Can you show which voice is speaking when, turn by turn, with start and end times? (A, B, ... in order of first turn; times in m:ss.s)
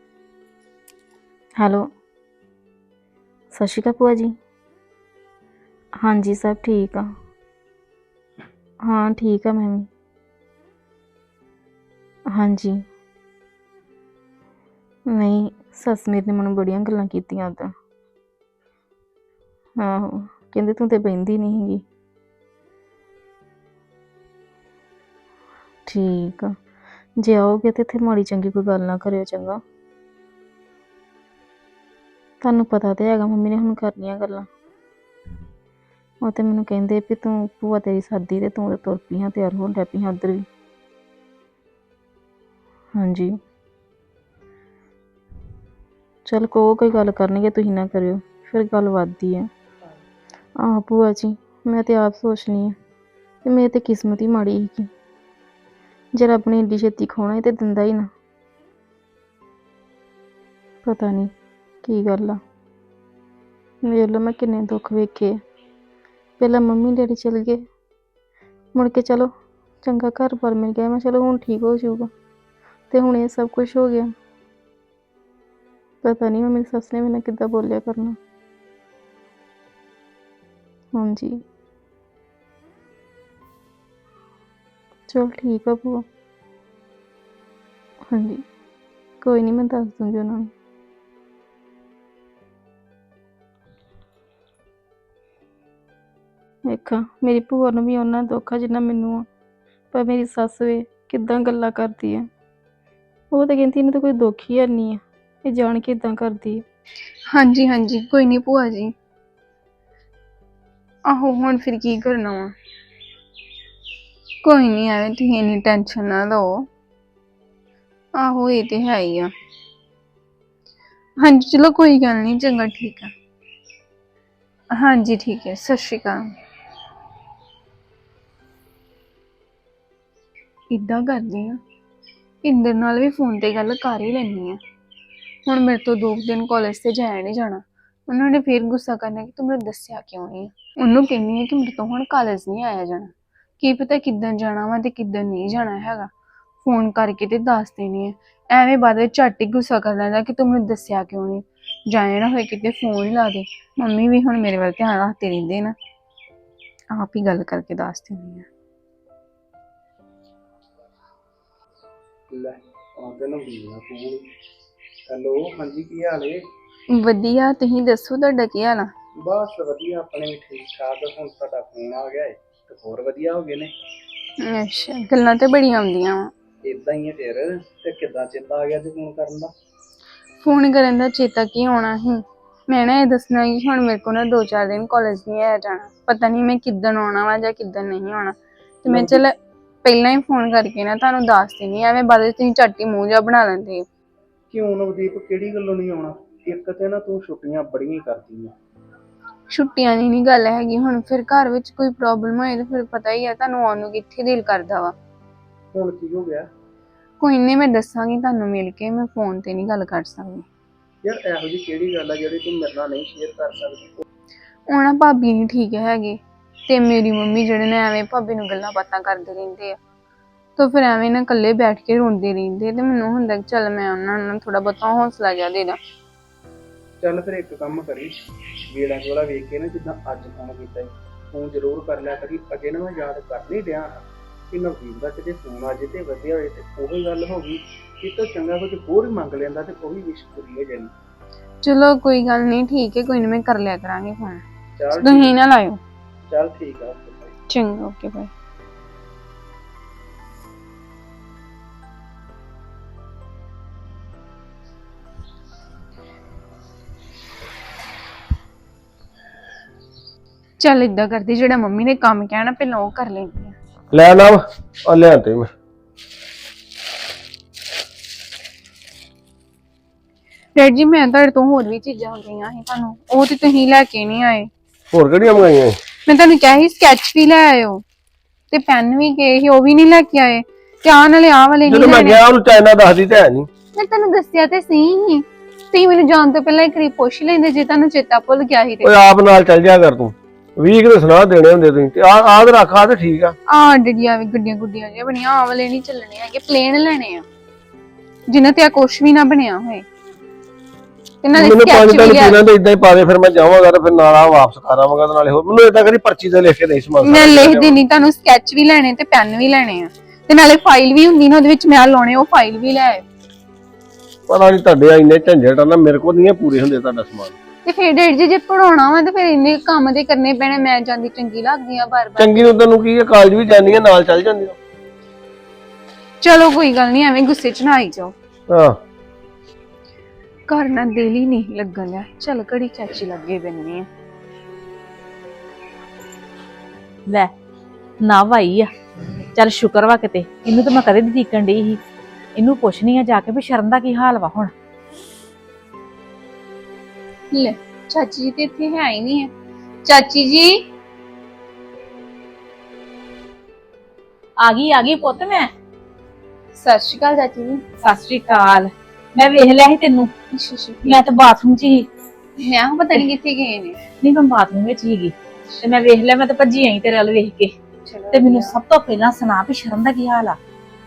0:01.6-0:01.9 A
0:03.5-0:04.4 A
0:06.0-0:07.1 A
0:08.8-0:09.9 A
0:12.3-0:12.8 A
0:15.1-0:17.7 A
0:19.8-0:21.8 A
0:25.9-0:26.6 A
0:27.2-0:29.6 A
0:32.4-0:34.5 A
0:36.2-0:40.4 A
0:42.9-0:43.4 A
0:46.2-0:49.5 A
0:50.6-0:52.8 A
0:53.4-0:54.9 A
0:56.1-0:58.1 A
1:00.8-1:01.3 A
1:01.8-1:02.4 A
1:03.8-1:05.4 A
1:06.4-1:07.6 A
1:08.7-1:12.1 A
1:12.9-1:14.1 A
1:16.0-1:18.2 A
1:20.9-1:21.4 A
1:25.1-1:26.0 A
1:28.1-1:28.4 A
1:29.2-1:30.5 A
1:36.6-1:39.3 A
1:39.9-1:42.3 A
1:43.3-1:46.6 A
1:47.3-1:48.9 B
1:51.1-1:52.5 B
1:54.4-1:56.5 B
1:58.2-1:59.3 B
2:01.2-2:03.1 B
2:04.8-2:06.2 B
2:10.7-2:11.6 B
2:12.4-2:14.6 B
2:15.4-2:26.1 B
2:26.6-2:35.7 B
2:36.9-2:38.5 B
2:42.3-2:44.2 C
2:45.1-2:46.4 C
2:47.0-2:48.8 B
2:49.2-2:53.7 C
2:54.4-2:56.3 B
2:56.6-2:59.5 C
3:00.4-3:09.3 B
3:08.8-3:09.2 C
3:09.8-3:13.8 B
3:14.5-3:18.5 C
3:19.5-3:24.9 B
3:25.7-3:26.4 C
3:27.2-3:30.4 B
3:31.0-3:34.0 C
3:34.7-3:39.8 B
3:40.6-3:45.8 B
3:47.0-3:48.1 C
3:48.7-4:00.9 C
4:01.6-4:04.4 B
4:04.8-4:05.3 C
4:04.9-4:05.8 B
4:06.3-4:07.3 C
4:07.5-4:08.3 B
4:20.6-4:23.5 B
4:23.9-4:25.5 D
4:30.5-4:34.5 B
4:34.9-4:35.8 D
4:36.0-4:37.8 B
4:38.5-4:42.2 B
4:41.7-4:43.5 D
4:43.7-4:48.9 B
4:48.8-4:53.3 D
4:53.5-4:57.2 B
4:58.3-4:59.8 B
5:01.2-5:02.4 B
5:01.3-5:07.8 D
5:07.0-5:13.0 B
5:14.3-5:17.3 D
5:17.6-5:22.6 B
5:22.2-5:24.6 D
5:26.2-5:28.1 B
5:28.5-5:28.8 D
5:30.5-5:33.8 B
5:38.0-5:38.7 E
5:39.3-5:41.8 E
5:42.4-5:44.5 E
5:47.3-5:49.3 B
5:49.8-5:50.5 B
5:54.4-5:55.5 E
5:56.6-5:57.6 B
5:57.8-6:00.1 E
6:00.3-6:01.1 B
6:00.8-6:01.8 E
6:02.4-6:03.8 B
6:04.0-6:07.5 E
6:07.8-6:08.6 B
6:08.1-6:10.4 E